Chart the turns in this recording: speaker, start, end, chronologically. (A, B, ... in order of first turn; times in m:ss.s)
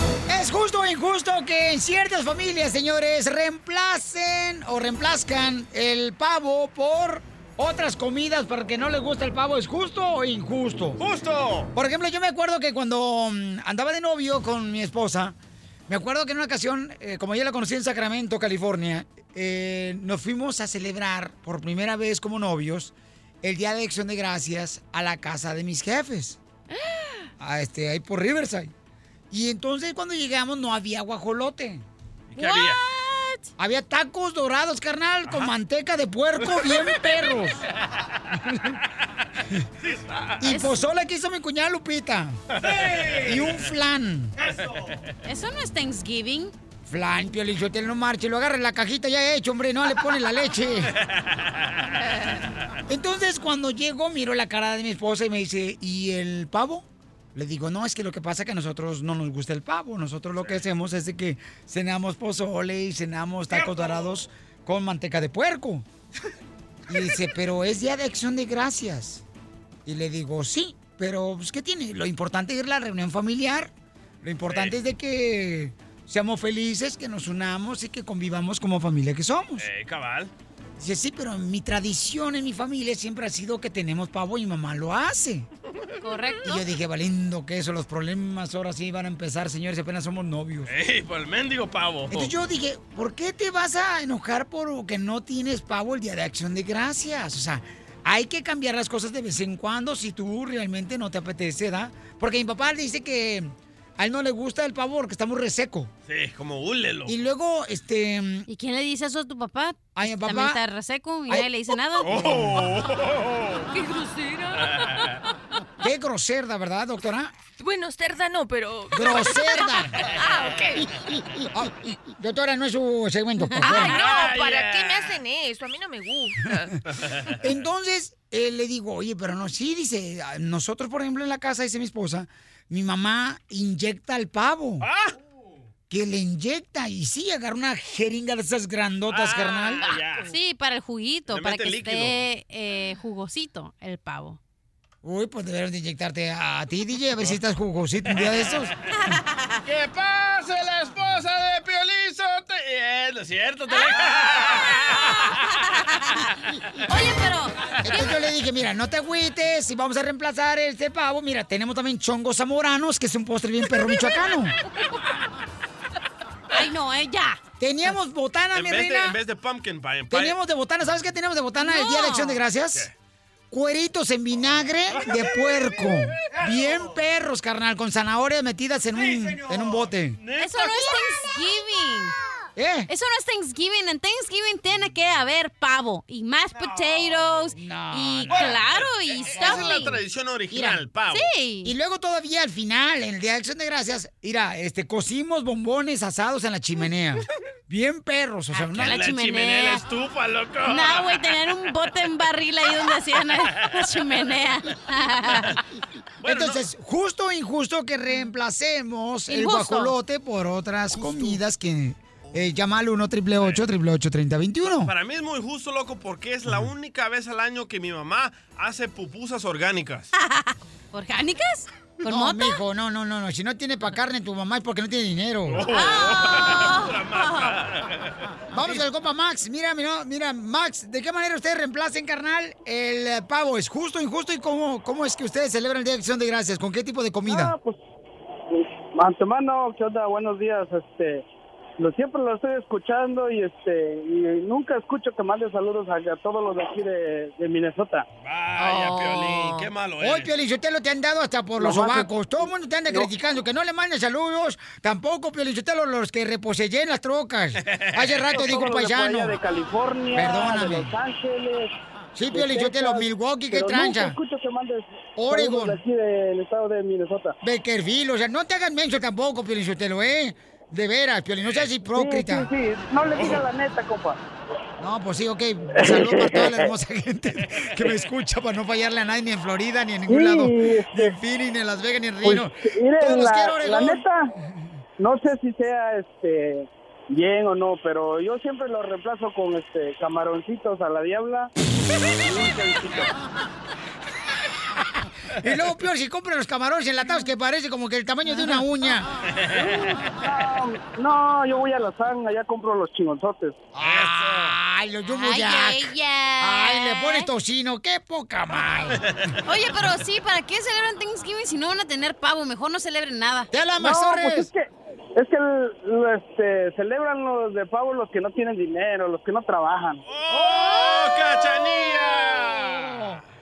0:00.3-0:11.0 A
0:11.0-0:11.7 B
0:11.7-0:15.4 A
0:15.9-0:26.4 A
0:27.4-0:28.7 A
0:29.3-0:31.8 A
0:32.3-0:32.8 B
0:32.4-0:33.4 C
0:33.6-0:37.6 A
0:39.8-0:40.4 B
0:40.4-0:42.4 A
0:40.5-0:40.7 C
0:42.5-0:43.4 B
0:43.1-0:44.3 A
0:45.2-0:46.5 C
0:46.8-0:50.9 A
0:51.0-0:51.9 B
0:52.9-1:05.8 A
1:03.5-1:04.2 B
1:06.9-1:09.2 A
1:09.8-1:19.7 A
1:14.5-1:14.8 B
1:19.6-1:20.3 B
1:20.8-1:25.5 A
1:26.0-1:26.6 C
1:26.4-1:30.7 A
1:30.6-1:32.3 B
1:32.1-1:45.9 A
1:46.1-1:47.2 B
1:47.1-1:48.5 A
1:48.5-1:52.1 C
1:50.0-1:50.6 A
1:52.0-1:53.7 B
1:52.0-1:52.6 A
1:53.7-1:54.7 D
1:54.5-1:55.2 B
1:55.8-1:57.3 A
1:57.6-1:59.7 D
1:58.9-2:00.0 A
2:00.2-2:00.8 D
2:01.5-2:04.0 A
2:03.5-2:04.0 C
2:03.7-2:06.7 D
2:03.8-2:05.2 B
2:06.9-2:07.4 B
2:07.4-2:14.9 A
2:14.8-2:15.2 B
2:15.9-2:19.9 A
2:19.1-2:20.3 B
2:20.2-2:24.4 C
2:21.3-2:22.2 B
2:25.0-2:28.7 A
2:28.1-2:28.7 B
2:29.6-2:35.2 B
2:34.9-2:36.3 C
2:36.9-2:38.1 C
2:37.8-2:44.5 A
2:46.5-2:47.4 C
2:47.6-2:49.2 A
2:48.5-2:50.4 B
2:50.1-2:52.9 A
2:51.6-2:52.4 C
2:53.5-3:00.2 A
2:54.9-2:55.2 B
3:00.2-3:01.0 B
3:00.4-3:02.1 C
3:02.6-3:02.9 A
3:02.9-3:10.0 C
3:07.6-3:08.5 A
3:08.3-3:11.3 B
3:09.4-3:09.9 A
3:10.5-3:10.8 A
3:11.1-3:11.7 C
3:11.6-3:19.0 A
3:18.5-3:19.8 C
3:18.8-3:21.2 B
3:20.7-3:25.6 C
3:26.2-3:26.6 B
3:26.2-3:34.9 A
3:29.3-3:30.0 C
3:34.8-3:40.1 B
3:40.2-3:42.6 C
3:42.0-3:45.7 A
3:45.5-3:48.2 B
3:45.7-3:47.6 C
3:48.5-3:57.6 A
3:57.3-3:57.8 E
3:58.9-4:01.2 E
4:01.8-4:08.0 E
4:08.2-4:10.3 B
4:08.6-4:09.7 D
4:10.0-4:19.4 A
4:11.6-4:12.1 E
4:17.6-4:18.5 B
4:18.3-4:21.7 E
4:20.1-4:20.9 A
4:22.1-4:24.2 A
4:22.3-4:27.3 E
4:25.2-4:25.8 A
4:27.4-4:32.5 A
4:31.9-4:34.2 E
4:34.8-4:44.0 A
4:40.1-4:41.1 E
4:42.2-4:44.2 E
4:45.0-4:51.5 E
4:52.2-4:53.1 E
4:55.4-4:59.1 A
4:59.3-5:00.0 B
5:00.2-5:03.6 E
5:03.7-5:09.0 A
5:03.8-5:04.6 B
5:05.1-5:07.3 C
5:09.1-5:09.4 B
5:09.4-5:13.5 C
5:13.5-5:14.5 A
5:13.8-5:20.0 E
5:20.0-5:23.2 B
5:22.8-5:23.1 A